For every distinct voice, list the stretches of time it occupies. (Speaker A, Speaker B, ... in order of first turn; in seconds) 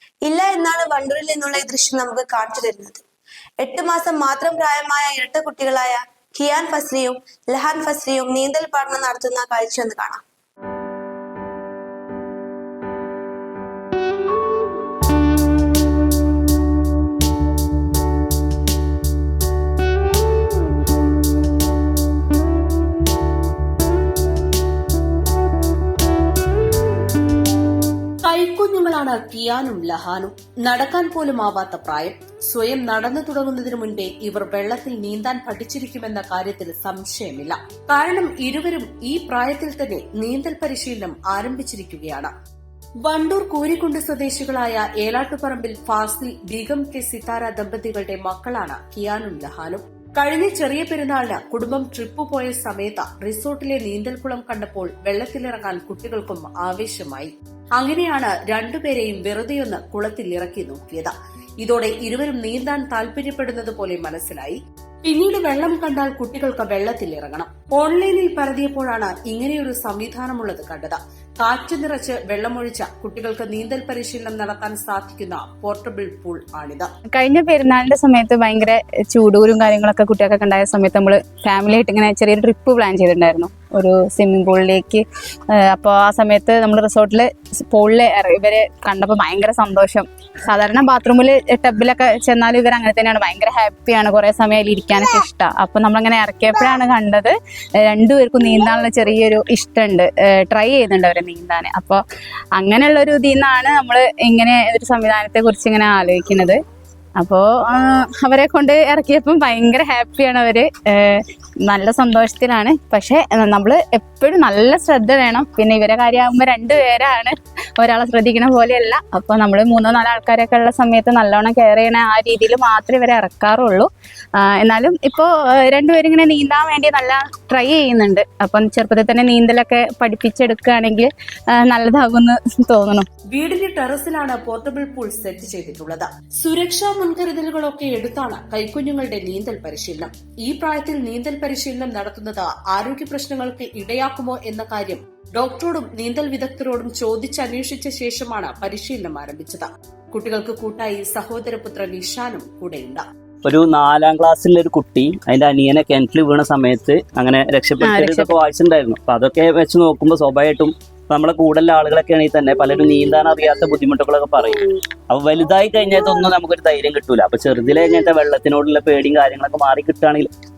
Speaker A: 0.2-3.0, 3.6-10.2
Speaker B: 28.2-42.3, 43.0-76.9, 133.3-153.0
Speaker C: 77.1-85.0, 85.7-97.3, 97.9-102.0, 102.6-106.6, 107.2-123.9, 124.6-131.1, 131.6-133.1, 157.8-158.3
Speaker D: 153.4-164.5, 165.1-170.3